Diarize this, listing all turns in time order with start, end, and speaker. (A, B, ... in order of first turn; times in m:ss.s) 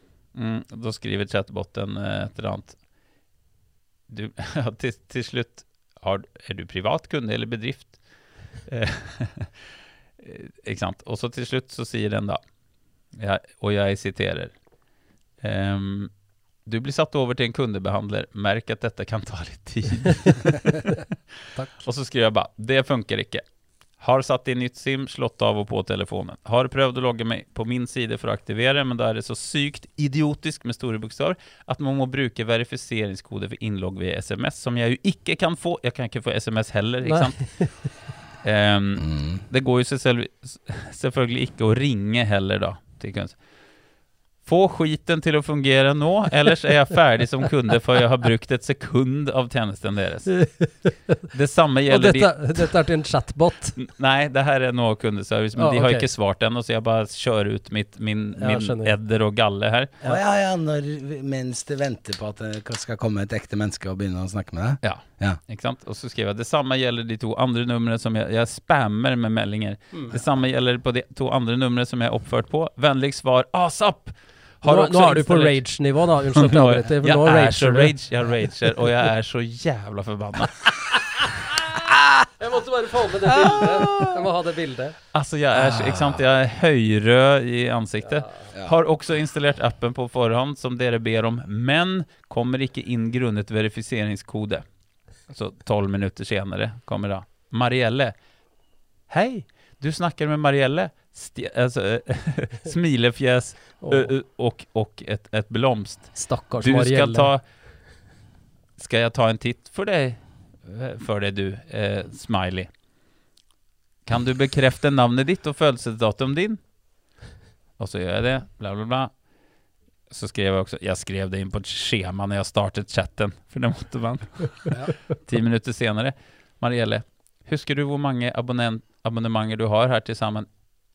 0:00.3-0:02.8 A
0:04.1-0:07.9 A
0:08.7-0:09.5 A
0:10.2-0:12.4 A
0:13.2-0:14.5 A
0:15.4-0:16.1 A
0:16.6-0:21.0 A
0:21.6-0:21.8 B
0:21.8-0:23.4 A
0:24.0-0:37.5 A
0:37.1-0:37.7 B
0:38.4-0:43.4 A
0:39.0-0:39.4 C
0:44.4-0:50.3 A
0:50.3-0:51.2 B
0:51.3-0:52.7 A
0:51.9-0:53.8 B
0:53.8-0:59.9 A
0:55.6-0:56.1 B
0:58.4-0:59.0 B
1:00.0-1:05.4 C
1:04.8-1:15.6 A
1:14.6-1:17.9 B
1:16.3-1:21.3 A
1:22.4-1:25.0 B
1:23.4-1:24.2 A
1:25.1-1:34.6 A
1:25.6-1:26.2 C
1:35.3-1:38.2 A
1:39.1-1:47.4 A
1:43.8-1:44.1 B
1:46.2-1:47.3 B
1:48.8-1:52.7 A
1:54.1-1:56.6 A
1:57.8-1:59.1 A
2:00.1-2:10.5 A